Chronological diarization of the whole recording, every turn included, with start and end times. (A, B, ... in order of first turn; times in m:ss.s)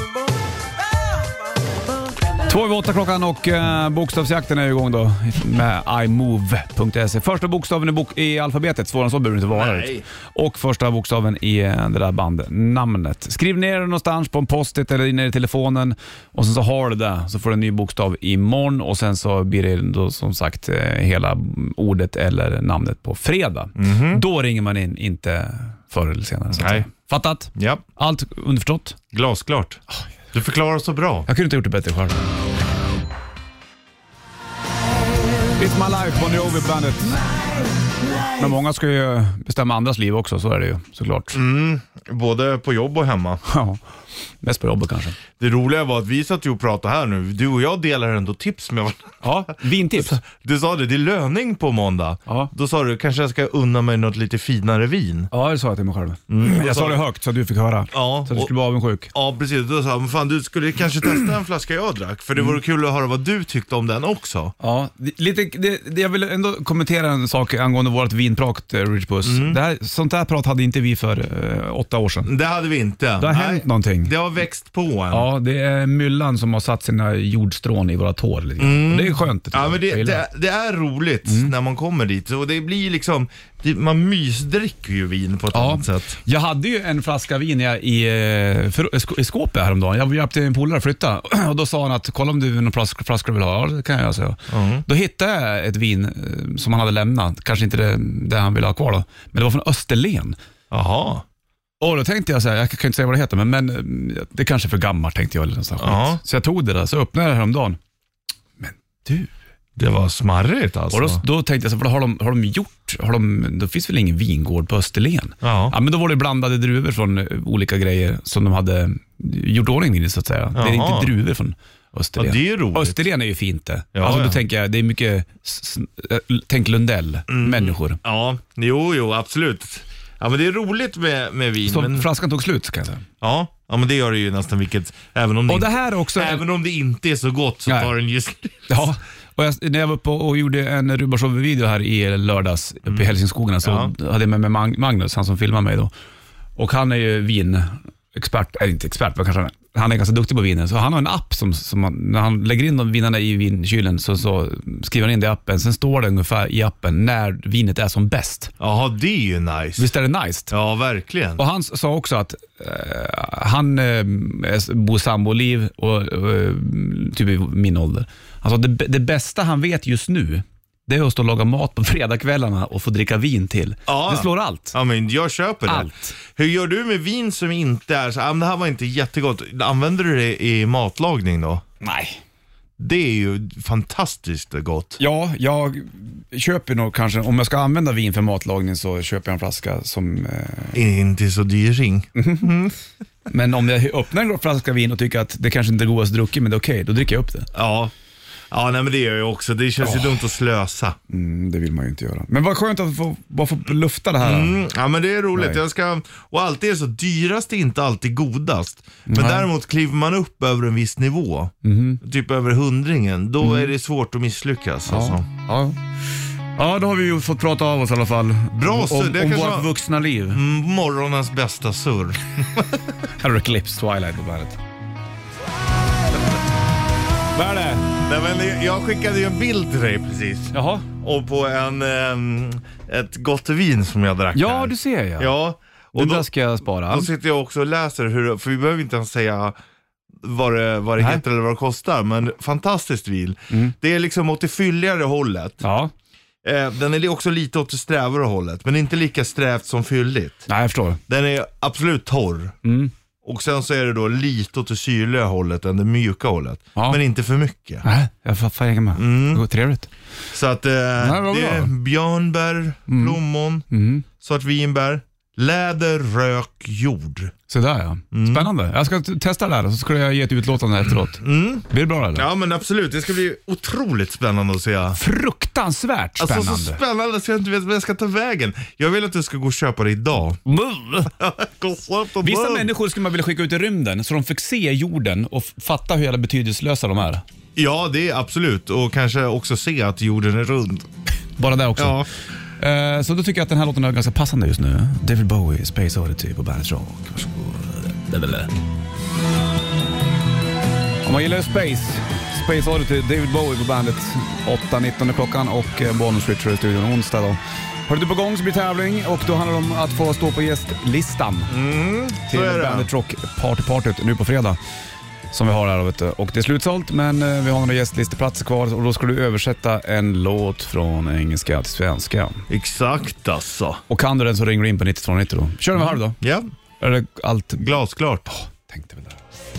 0:02.5-0:29.0 A
0:09.5-0:10.0 B
0:23.8-0:24.2 B
0:26.5-0:26.9 B
0:27.6-0:27.8 B
0:29.1-0:29.8 B
0:30.3-0:31.3 B
0:31.3-0:32.3 A
0:35.6-0:37.4 A
0:38.3-0:41.4 A
0:41.3-0:43.4 B
0:43.5-0:43.8 A
0:44.4-0:45.2 A
0:45.4-0:55.3 B
0:49.2-0:50.2 A
0:55.3-0:59.1 A
0:56.3-0:57.0 B
0:57.9-0:58.5 B
0:59.1-1:04.5 B
1:04.6-1:12.3 A
1:09.2-1:09.6 B
1:12.3-1:15.3 B
1:13.2-1:14.1 A
1:15.1-1:20.2 A
1:18.6-1:26.2 B
1:21.3-1:21.5 A
1:25.5-1:40.4 A
1:34.5-1:34.8 B
1:40.7-1:41.2 B
1:41.8-1:47.8 A
1:45.8-1:46.2 B
1:48.6-1:49.3 A
1:49.8-1:51.2 B
1:50.9-2:08.0 A
1:55.4-1:55.8 B
2:00.6-2:01.1 B
2:02.2-2:03.0 B
2:04.0-2:04.4 B
2:07.3-2:12.1 B
2:11.7-2:13.0 A
2:13.2-2:18.9 B
2:15.5-2:16.4 A
2:17.7-2:17.9 A
2:18.7-2:25.9 A
2:23.6-2:23.9 B
2:26.6-2:38.5 A
2:38.6-2:39.9 B
2:39.8-2:40.5 A
2:40.5-2:41.4 B
2:41.4-2:54.8 A
2:53.9-3:01.6 B
2:55.7-2:56.2 A
3:01.8-3:02.2 A
3:02.8-3:05.0 B
3:05.0-3:10.8 A
3:10.7-3:12.8 B
3:12.2-3:12.5 A
3:13.3-3:17.5 A
3:17.5-3:17.9 B
3:18.5-3:21.0 B
3:21.1-3:24.6 A
3:24.2-3:35.3 B
3:29.1-3:29.5 A
3:31.6-3:32.0 A
3:34.9-3:35.8 A
3:36.6-3:40.4 A
3:38.5-3:39.7 B
3:40.3-3:42.8 B
3:43.2-3:44.6 A
3:47.4-3:47.9 A
3:48.0-3:56.3 B
3:50.5-3:50.9 A
3:54.3-3:55.3 A
3:55.9-3:57.1 A
3:56.9-3:59.6 B
4:00.2-4:05.6 B
4:05.6-4:05.9 A
4:06.4-4:10.5 B
4:10.5-4:11.0 A
4:11.1-4:12.6 B
4:12.6-4:12.9 A
4:13.2-4:17.8 B
4:17.8-4:19.9 A
4:19.0-4:19.4 B
4:20.3-4:23.6 B
4:21.0-4:21.7 A
4:22.9-4:23.2 A
4:23.7-4:24.0 A
4:24.2-4:27.3 B
4:27.5-4:32.3 A
4:28.1-4:28.5 B
4:31.2-4:35.0 B
4:35.0-4:36.8 A
4:36.2-4:40.4 B
4:40.5-4:41.1 A
4:41.1-4:42.7 B
4:42.2-4:47.2 A
4:47.6-4:50.9 B
4:51.4-4:52.0 A
4:51.8-4:52.1 B
4:52.6-4:58.5 A
5:01.0-5:11.5 A
5:11.5-5:12.9 B
5:12.3-5:14.6 A
5:15.3-5:22.4 A
5:22.5-5:23.8 B
5:23.9-5:26.2 A
5:26.1-5:26.5 B
5:26.8-5:27.6 A
5:27.6-5:28.3 B
5:28.3-5:29.2 A